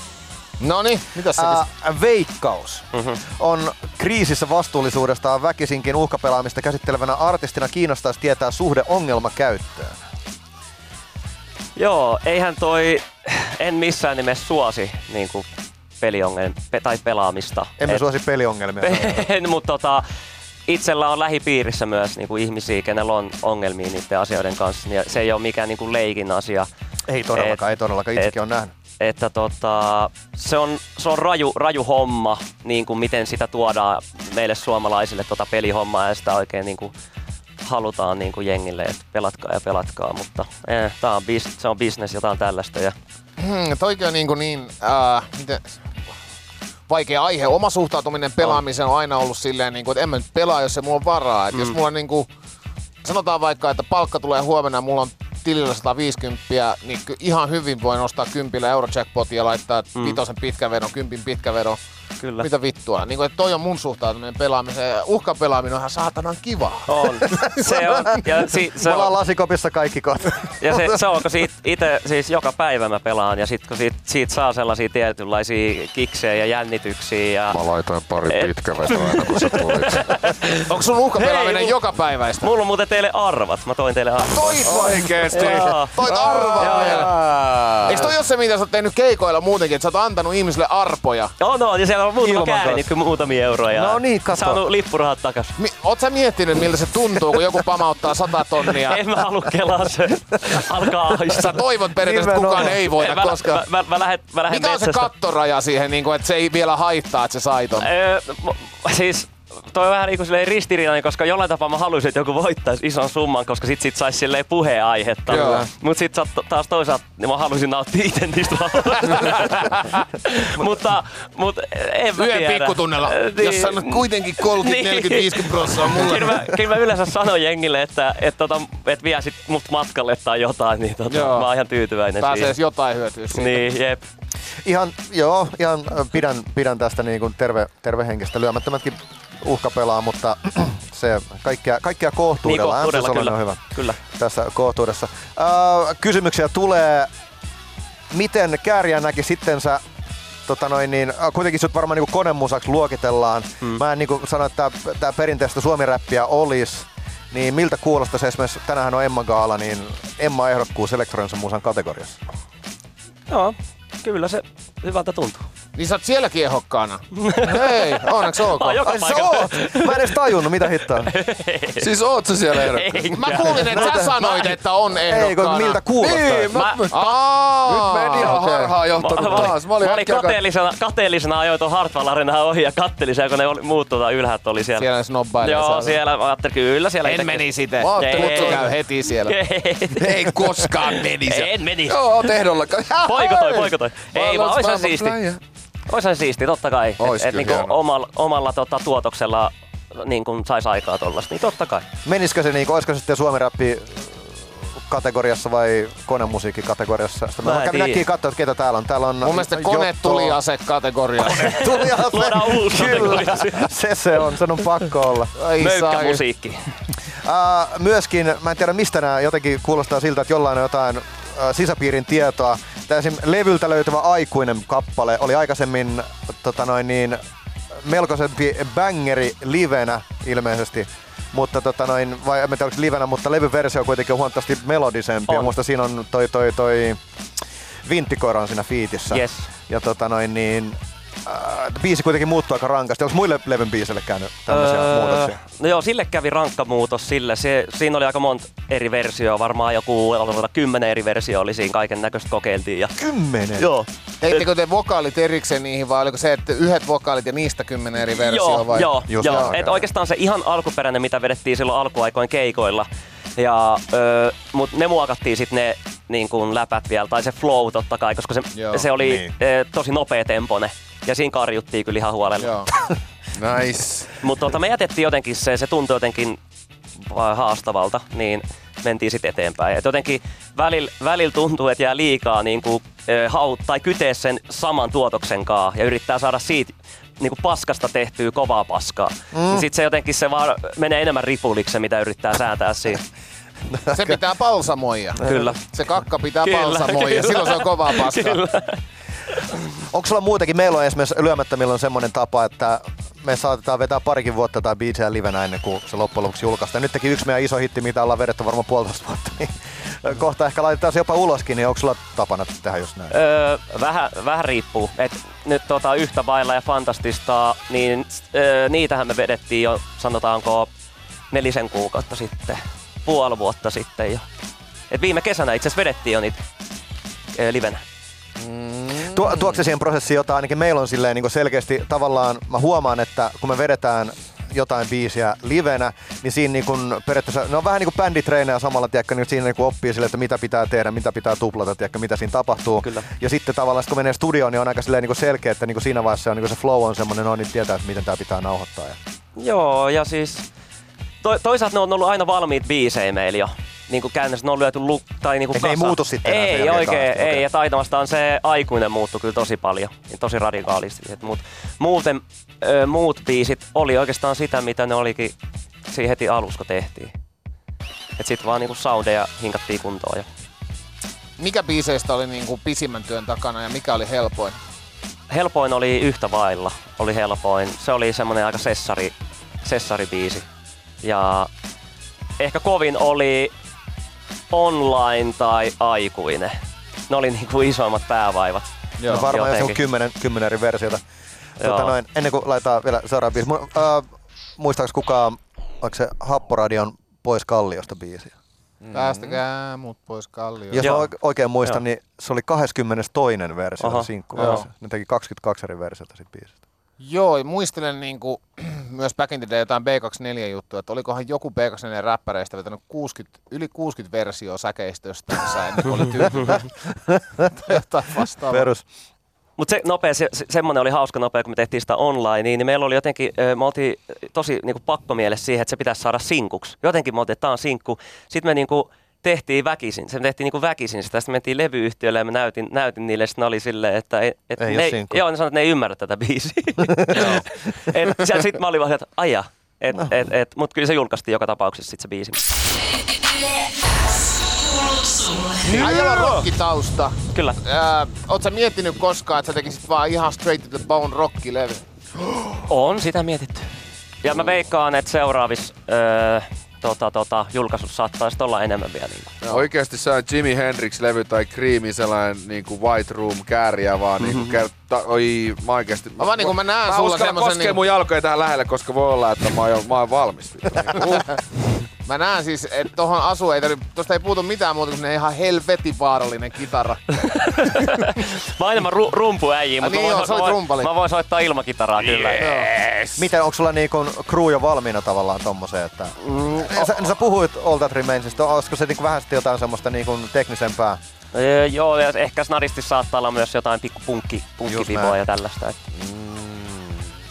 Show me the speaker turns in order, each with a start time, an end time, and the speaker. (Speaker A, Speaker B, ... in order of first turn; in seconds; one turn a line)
Speaker A: 0.6-1.6
Speaker B: 1.4-10.0
Speaker C: 2.9-3.2
Speaker C: 11.8-15.5
Speaker C: 16.0-18.0
Speaker B: 17.8-19.3
Speaker C: 18.8-20.0
Speaker C: 20.7-26.7
Speaker B: 27.1-28.7
Speaker C: 27.3-27.6
Speaker C: 29.0-36.9
Speaker C: 37.6-43.0
Speaker A: 43.4-45.8
Speaker A: 46.9-52.3
Speaker A: 53.0-61.8
Speaker C: 62.2-62.5
Speaker A: 62.4-68.1
Speaker C: 66.9-69.1
Speaker B: 67.9-68.2
Speaker B: 68.8-71.0
Speaker C: 70.6-77.6
Speaker D: 77.5-80.1
Speaker C: 78.3-81.8
Speaker A: 80.5-82.5
Speaker C: 82.4-84.7
Speaker A: 84.3-87.2
Speaker D: 84.6-87.8
Speaker C: 85.3-86.0
Speaker B: 86.2-87.2
Speaker C: 86.6-87.1
Speaker A: 87.8-91.3
Speaker C: 91.4-95.5
Speaker B: 92.2-92.9
Speaker B: 93.7-94.6
Speaker A: 95.6-99.0
Speaker C: 98.8-101.6
Speaker A: 101.3-103.6
Speaker B: 102.0-102.8
Speaker C: 102.6-105.1
Speaker A: 104.5-107.9
Speaker C: 107.8-132.5
Speaker A: 115.3-115.7
Speaker B: 115.3-115.6
Speaker A: 119.2-119.8
Speaker A: 122.2-126.6
Speaker A: 131.1-131.5
Speaker A: 132.2-133.6
Speaker C: 133.3-134.1
Speaker B: 134.6-147.1
Speaker C: 142.4-144.0
Speaker B: 148.1-149.8
Speaker B: 150.5-162.2
Speaker C: 163.3-165.5
Speaker A: 165.8-168.9
Speaker C: 167.2-170.3
Speaker B: 168.8-171.1
Speaker C: 170.9-171.9
Speaker D: 171.8-173.2
Speaker C: 172.5-173.9
Speaker A: 173.2-175.8
Speaker B: 173.5-176.6
Speaker D: 176.0-180.4
Speaker C: 176.5-176.9
Speaker A: 176.9-178.8
Speaker C: 179.0-184.9
Speaker A: 184.8-186.0
Speaker C: 185.4-188.7
Speaker A: 187.0-189.4
Speaker D: 187.8-188.7
Speaker C: 189.2-190.7
Speaker D: 190.0-195.4
Speaker A: 190.2-191.2
Speaker C: 191.2-192.1
Speaker C: 193.0-195.2
Speaker C: 195.9-201.9
Speaker D: 197.0-197.8
Speaker B: 202.0-210.4
Speaker C: 207.4-208.0
Speaker A: 209.2-211.6
Speaker B: 211.2-215.3
Speaker C: 211.3-213.7
Speaker A: 215.3-216.2
Speaker C: 215.6-216.6
Speaker B: 217.2-227.2
Speaker B: 227.7-237.0
Speaker B: 237.8-245.4
Speaker C: 239.1-239.5
Speaker C: 244.5-253.0
Speaker B: 253.0-253.7
Speaker C: 253.6-254.4
Speaker A: 254.2-259.5
Speaker C: 258.1-272.6
Speaker B: 259.1-259.9
Speaker A: 268.6-268.9
Speaker B: 269.0-269.3
Speaker A: 272.4-272.7
Speaker D: 273.3-274.2
Speaker C: 274.2-276.4
Speaker C: 277.0-293.0
Speaker B: 289.3-289.7
Speaker B: 293.7-294.1
Speaker A: 293.9-298.4
Speaker C: 295.2-295.6
Speaker C: 296.4-298.8
Speaker B: 299.9-313.1
Speaker C: 313.1-320.7
Speaker C: 321.3-324.3
Speaker C: 324.9-326.4
Speaker C: 327.3-327.8
Speaker D: 328.4-328.9
Speaker B: 328.9-349.0
Speaker C: 349.4-350.5
Speaker C: 351.2-365.4
Speaker B: 355.5-357.4
Speaker C: 365.9-367.1
Speaker C: 368.2-370.3
Speaker A: 371.4-374.6
Speaker C: 375.3-380.5
Speaker C: 381.0-381.5
Speaker C: 382.4-383.5
Speaker C: 384.5-386.6
Speaker C: 387.1-388.6
Speaker A: 389.0-389.3
Speaker B: 389.1-391.0
Speaker C: 389.2-389.8
Speaker C: 391.6-391.9
Speaker B: 391.6-394.1
Speaker B: 394.6-398.3
Speaker D: 398.8-399.4
Speaker A: 398.9-400.8
Speaker B: 400.7-406.6
Speaker C: 400.8-401.1
Speaker C: 403.8-404.6
Speaker A: 404.4-404.7
Speaker A: 407.0-416.7
Speaker B: 417.1-417.5
Speaker A: 417.5-418.7
Speaker B: 418.5-418.8
Speaker C: 419.6-442.4
Speaker B: 434.6-435.2
Speaker B: 436.8-437.4
Speaker E: 443.2-445.8
Speaker C: 445.6-446.4
Speaker A: 445.7-451.8
Speaker C: 452.7-453.7
Speaker C: 454.2-459.4
Speaker A: 459.4-459.7
Speaker D: 459.5-471.4
Speaker C: 464.3-464.5
Speaker A: 466.2-467.8
Speaker A: 472.1-477.9
Speaker C: 477.2-482.6
Speaker A: 479.8-480.9
Speaker D: 482.1-482.7
Speaker A: 482.4-483.2
Speaker B: 483.2-491.0
Speaker A: 486.4-486.7
Speaker C: 491.3-495.8
Speaker B: 494.7-495.2
Speaker D: 495.9-497.0